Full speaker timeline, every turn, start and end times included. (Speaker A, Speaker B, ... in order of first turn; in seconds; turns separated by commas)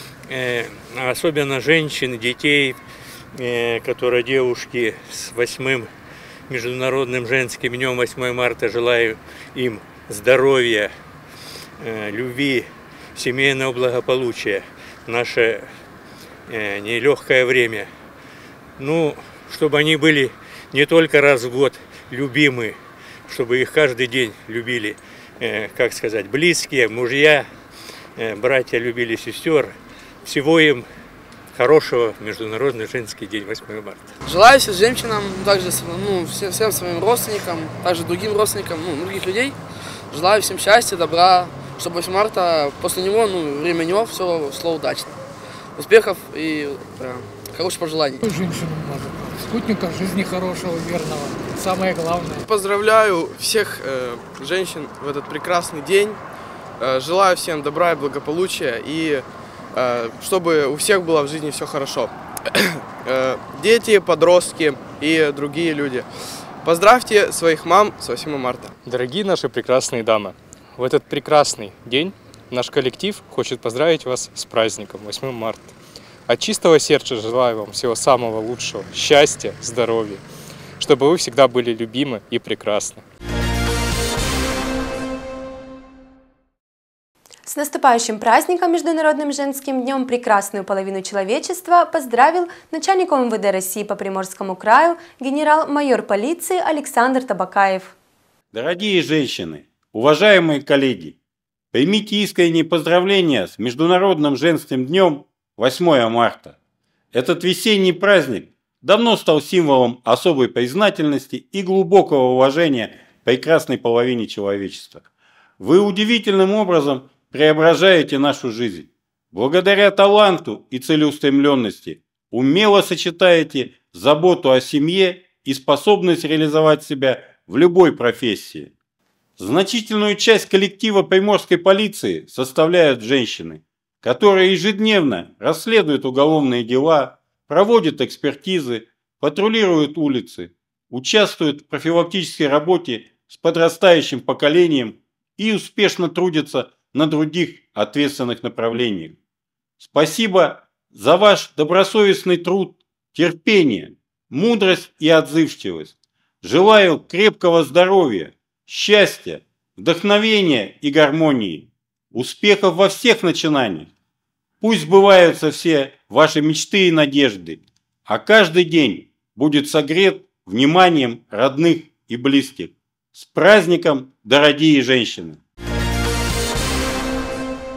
Speaker A: 0.3-2.8, Speaker A: 3.4-5.9, Speaker A: 6.5-10.9, Speaker A: 11.8-15.7, Speaker A: 16.5-17.9, Speaker A: 18.8-22.8, Speaker A: 23.3-27.5, Speaker A: 28.2-29.7, Speaker A: 30.3-30.9, Speaker A: 31.6-34.0, Speaker B: 34.3-39.6, Speaker B: 40.1-45.2, Speaker B: 45.8-48.3, Speaker C: 48.2-52.4, Speaker D: 52.4-56.2, Speaker D: 56.8-62.1, Speaker D: 63.0-66.1, Speaker D: 66.6-68.8, Speaker E: 68.8-75.7, Speaker E: 76.3-80.2, Speaker E: 80.8-83.0, Speaker F: 87.5-97.9, Speaker G: 98.5-101.2, Speaker G: 101.7-106.5, Speaker G: 107.1-115.0, Speaker G: 115.6-128.7, Speaker G: 129.4-149.2, Speaker G: 149.8-163.9, Speaker G: 164.6-175.4